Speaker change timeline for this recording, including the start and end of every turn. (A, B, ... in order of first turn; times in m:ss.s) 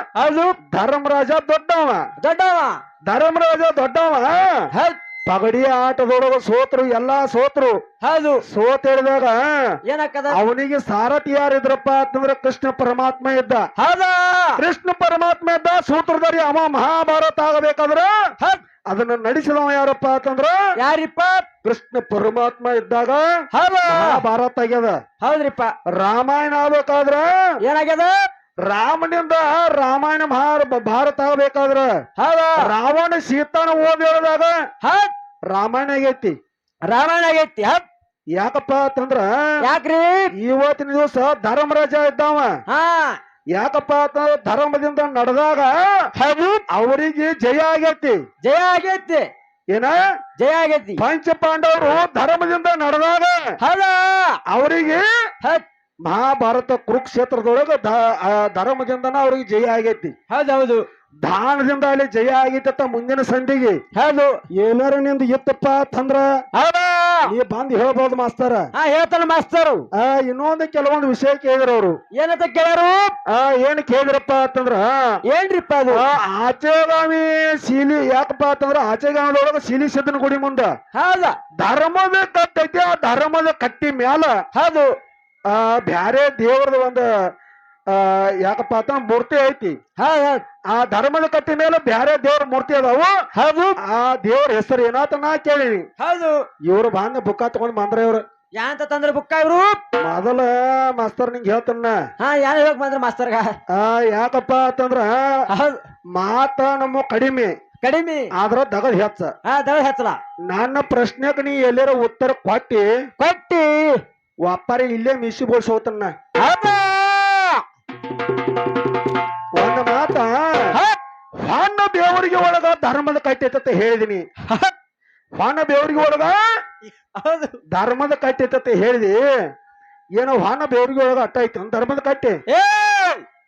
0:00.2-0:00.6 A
0:00.7-0:02.0 B
0:02.2-0:02.8 A
0:03.1-0:04.6 B
0:04.7-0:05.0 A
0:05.3-0:07.8 B
0:08.0-0:08.4 A
0:08.4-0:09.7 B
0:09.9-0:10.4 A
0:10.3-0:13.7 B
0:13.8-0:14.6 A
0:14.6-0:18.1 B
0:18.9-0:20.6 B
0:20.8-0:21.5 A
0:21.6-0:23.2 B
0:23.5-0:24.2 A
0:23.9-0:25.0 B
0:25.2-0:25.7 A
0:25.9-0:27.3 B
0:27.6-0:28.2 A
0:28.6-0:31.9 B
0:32.2-0:32.7 A
0:32.6-0:34.5 B
0:34.8-0:35.1 A
0:35.5-0:36.4 B
0:36.9-0:37.8 A
0:38.4-0:39.3 B
0:39.6-0:40.3 A
0:40.3-0:42.5 B
0:42.7-0:43.2 A
0:43.6-0:45.7 B
0:46.2-0:46.6 A
0:46.7-0:48.2 B
0:48.4-0:49.3 A
0:49.7-0:50.0 B
0:50.4-0:51.0 A
0:51.0-0:53.5 B
0:53.6-0:54.4 A
0:54.5-0:55.1 B
0:56.0-1:00.1 B
1:00.3-1:00.8 A
1:01.2-1:03.8 B
1:04.0-1:04.4 A
1:04.6-1:06.2 B
1:06.6-1:07.3 A
1:07.3-1:08.7 B
1:08.8-1:09.9 A
1:10.0-1:12.0 B
1:12.1-1:13.1 A
1:13.3-1:14.9 B
1:15.3-1:16.0 A
1:15.9-1:20.7 B
1:20.9-1:21.4 A
1:21.6-1:24.3 B
1:24.5-1:24.9 A
1:25.5-1:27.1 B
1:27.9-1:29.8 B
1:30.0-1:30.4 A
1:30.7-1:33.1 B
1:33.3-1:33.8 A
1:33.8-1:35.9 B
1:36.0-1:36.5 A
1:36.7-1:38.2 B
1:38.6-1:39.8 A
1:40.0-1:42.0 B
1:42.2-1:43.6 A
1:43.7-1:45.4 B
1:45.5-1:45.8 A
1:46.2-1:47.5 B
1:47.8-1:48.3 A
1:48.3-1:49.3 B
1:49.4-1:50.2 A
1:50.5-1:52.9 B
1:53.2-1:54.0 A
1:54.4-1:56.1 B
1:56.4-1:57.6 A
1:59.6-2:00.7 B
2:01.4-2:04.2 B
2:04.5-2:04.7 A
2:05.4-2:06.4 B
2:07.0-2:07.6 A
2:07.7-2:09.2 B
2:10.2-2:12.4 B
2:12.5-2:13.2 A